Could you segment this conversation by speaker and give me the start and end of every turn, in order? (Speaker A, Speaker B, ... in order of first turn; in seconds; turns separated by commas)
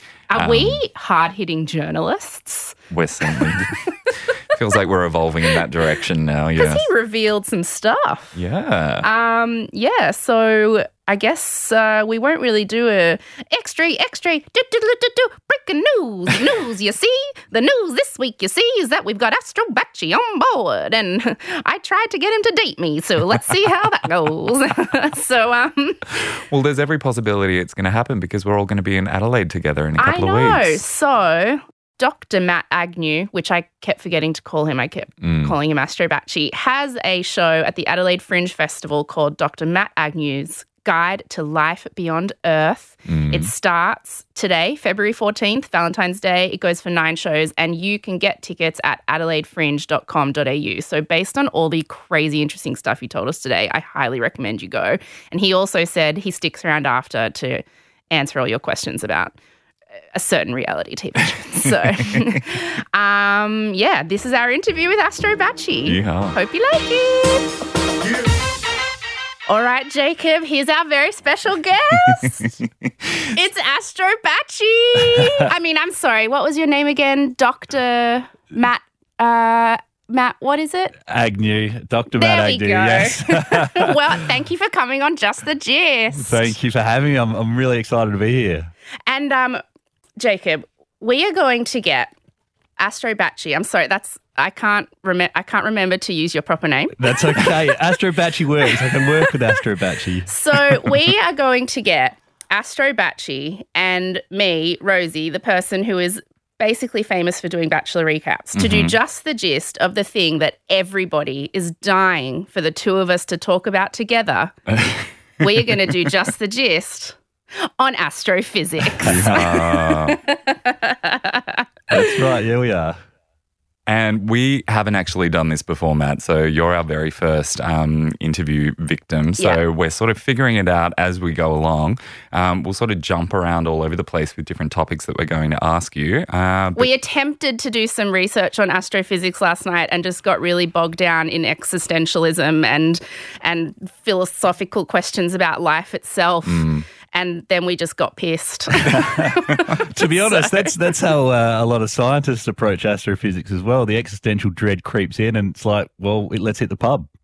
Speaker A: 0.3-3.9, Speaker B: 0.3-0.8, Speaker B: 2.9-6.9, Speaker A: 6.5-8.3, Speaker B: 8.3-9.1, Speaker A: 9.0-26.2, Speaker B: 26.4-30.8, Speaker A: 30.0-59.3, Speaker B: 35.2-35.5, Speaker B: 43.0-43.5, Speaker A: 60.1-67.5, Speaker B: 65.9-66.4, Speaker A: 69.5-72.5, Speaker A: 73.3-81.0, Speaker C: 81.0-84.0, Speaker A: 82.2-86.5, Speaker C: 86.2-88.7, Speaker A: 89.1-89.6, Speaker A: 90.2-92.1, Speaker A: 92.8-98.0, Speaker C: 97.0-100.9, Speaker A: 98.7-99.3, Speaker A: 100.3-114.5, Speaker B: 108.5-109.0, Speaker A: 115.4-122.0, Speaker B: 119.0-120.2, Speaker C: 119.2-119.5, Speaker C: 121.9-123.0, Speaker B: 123.9-136.9, Speaker A: 136.8-150.8, Speaker B: 146.4-146.8, Speaker C: 148.9-157.1